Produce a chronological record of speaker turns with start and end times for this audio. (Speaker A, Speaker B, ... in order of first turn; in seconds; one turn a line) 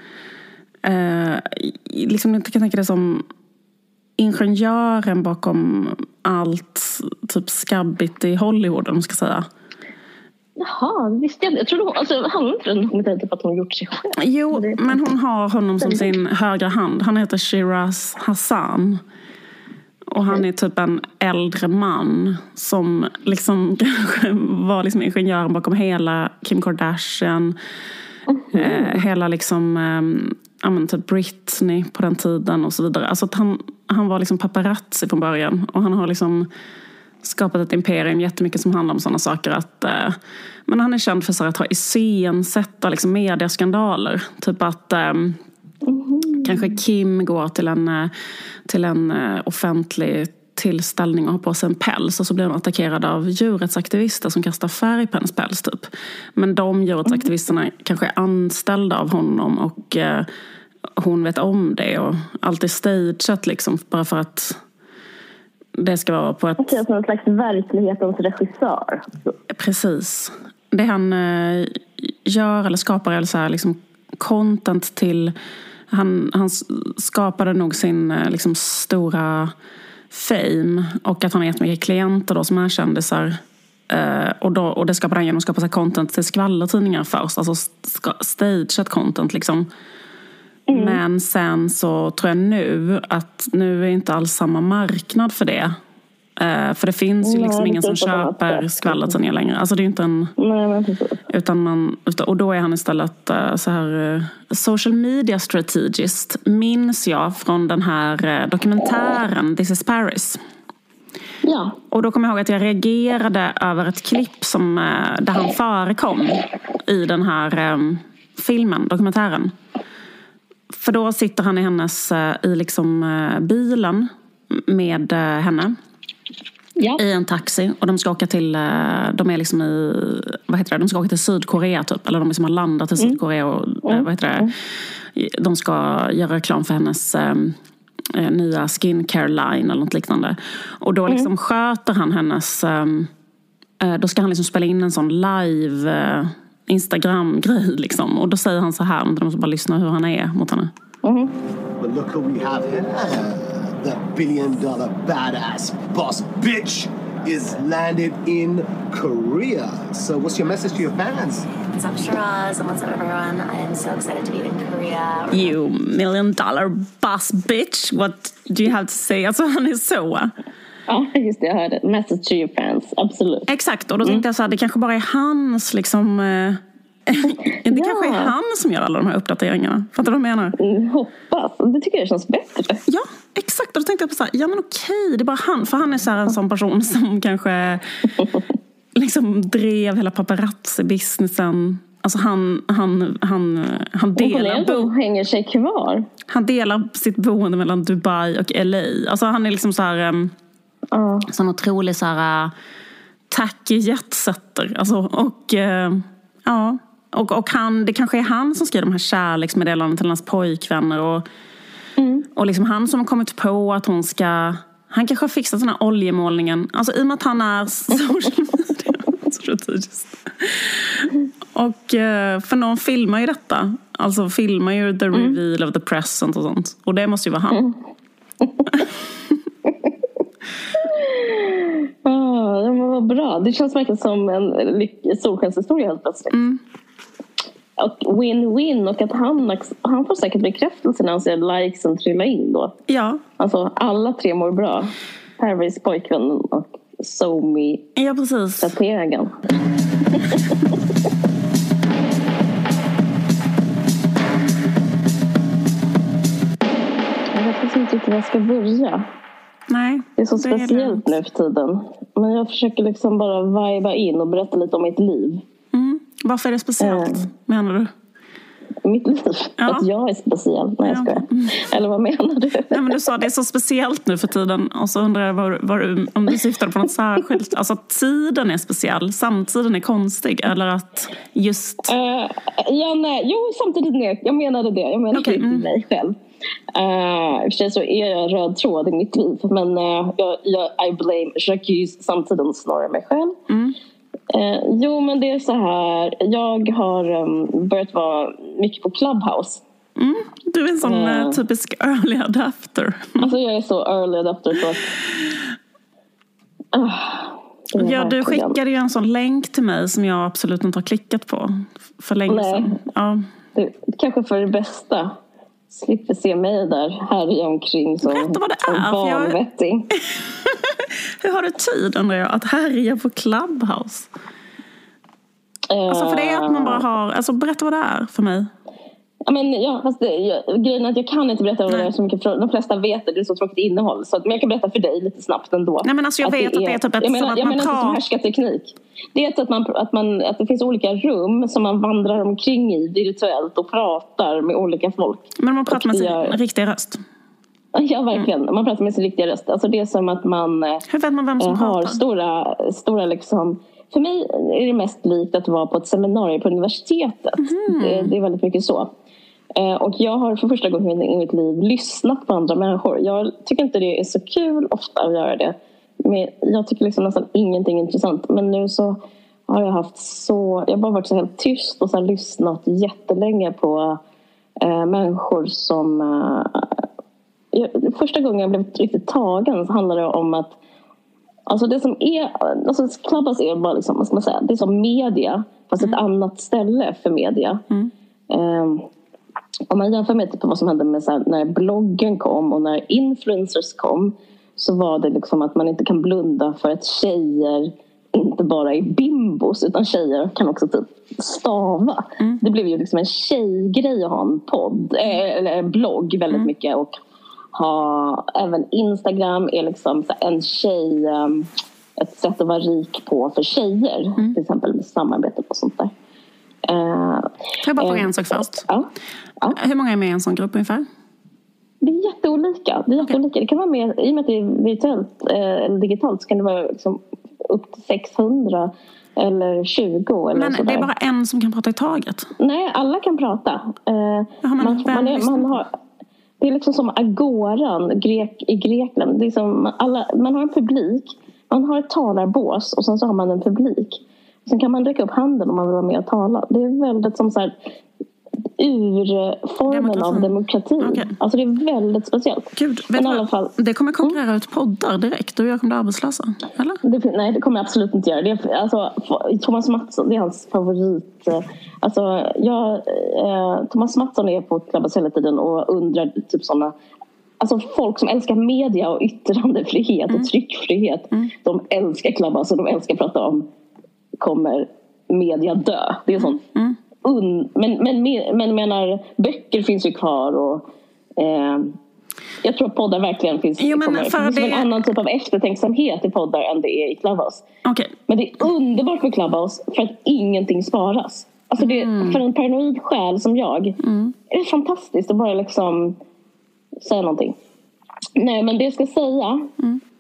Speaker A: 0.8-3.2
Speaker A: 4.2-9.5
Speaker B: 10.6-15.0
Speaker A: 14.2-19.0
Speaker B: 15.8-16.1
Speaker A: 20.1-27.6
Speaker B: 28.3-28.9
Speaker A: 28.5-36.5
Speaker A: 37.2-45.4
Speaker B: 45.8-46.6
Speaker A: 46.4-48.1
Speaker A: 48.7-60.3
Speaker A: 61.0-64.6
Speaker A: 65.8-66.8
Speaker B: 66.6-69.1
Speaker A: 69.5-75.3
Speaker A: 75.9-79.5
Speaker A: 80.1-83.4
Speaker A: 83.9-89.7
Speaker B: 90.7-91.0
Speaker A: 90.7-95.8
Speaker A: 96.4-100.3
Speaker B: 97.2-99.1
Speaker B: 100.4-101.2
Speaker A: 101.3-110.4
Speaker B: 111.4-111.8
Speaker A: 111.9-119.5
Speaker A: 120.7-125.8
Speaker B: 126.8-127.0
Speaker A: 127.0-134.5
Speaker B: 133.8-134.5
Speaker A: 135.1-137.6
Speaker A: 138.1-143.1
Speaker A: 143.8-150.7
Speaker B: 151.0-151.3
Speaker C: 151.8-161.5
Speaker D: 161.7-165.5
Speaker A: 165.3-170.3
Speaker B: 170.9-173.5
Speaker A: 173.5-180.6
Speaker B: 177.7-178.3
Speaker B: 180.6-182.8
Speaker A: 182.9-187.9
Speaker A: 188.9-194.9
Speaker B: 194.2-196.1
Speaker A: 196.3-200.3
Speaker B: 200.9-201.3
Speaker A: 201.3-202.5
Speaker A: 203.3-211.2
Speaker B: 212.0-212.2
Speaker A: 212.3-227.6
Speaker B: 227.5-227.8
Speaker B: 230.8-236.4
Speaker A: 236.3-236.6
Speaker B: 237.8-242.7
Speaker A: 242.9-243.2
Speaker B: 243.4-247.8
Speaker A: 247.9-248.7
Speaker B: 248.6-249.4
Speaker B: 250.1-250.7
Speaker B: 257.3-259.1
Speaker A: 259.7-261.1
Speaker B: 260.2-265.4
Speaker A: 265.7-267.9
Speaker B: 266.8-267.2
Speaker B: 268.8-272.9
Speaker A: 269.6-269.9
Speaker A: 270.8-271.6
Speaker A: 272.7-281.9
Speaker B: 281.9-286.2
Speaker A: 285.1-285.7
Speaker B: 286.7-293.4
Speaker A: 293.5-293.8
Speaker B: 294.3-299.6
Speaker A: 300.0-303.3
Speaker B: 300.8-301.4
Speaker B: 303.2-304.9
Speaker B: 306.7-308.6
Speaker A: 307.8-313.2
Speaker B: 312.3-312.8
Speaker B: 313.5-315.2
Speaker B: 315.7-319.9
Speaker A: 318.0-319.4
Speaker A: 320.1-324.1
Speaker B: 325.7-326.8
Speaker A: 325.9-328.5
Speaker B: 329.2-346.4
Speaker A: 335.8-338.0
Speaker A: 345.4-347.0
Speaker B: 347.7-350.8
Speaker A: 350.9-352.0
Speaker B: 351.4-358.9
Speaker A: 357.4-358.1
Speaker B: 359.5-374.0
Speaker B: 374.6-376.8
Speaker B: 377.5-380.6
Speaker B: 381.5-387.6
Speaker B: 388.3-388.9
Speaker B: 389.7-406.9
Speaker B: 407.5-415.9
Speaker B: 416.6-417.2
Speaker A: 417.6-418.6
Speaker B: 417.8-418.9
Speaker A: 419.5-420.9
Speaker B: 421.8-430.9
Speaker A: 430.3-432.3
Speaker B: 432.4-435.7
Speaker A: 434.4-435.6
Speaker B: 436.4-447.5
Speaker B: 448.6-454.2
Speaker A: 449.7-451.1
Speaker A: 452.6-456.8
Speaker B: 456.8-466.7
Speaker B: 467.4-473.5
Speaker B: 474.2-476.4
Speaker A: 476.2-476.8
Speaker B: 477.0-481.8
Speaker B: 482.4-487.4
Speaker A: 483.6-484.7
Speaker A: 487.6-487.9
Speaker B: 488.1-496.0
Speaker A: 491.6-492.2
Speaker A: 493.8-494.1
Speaker B: 496.8-497.4
Speaker B: 498.1-499.5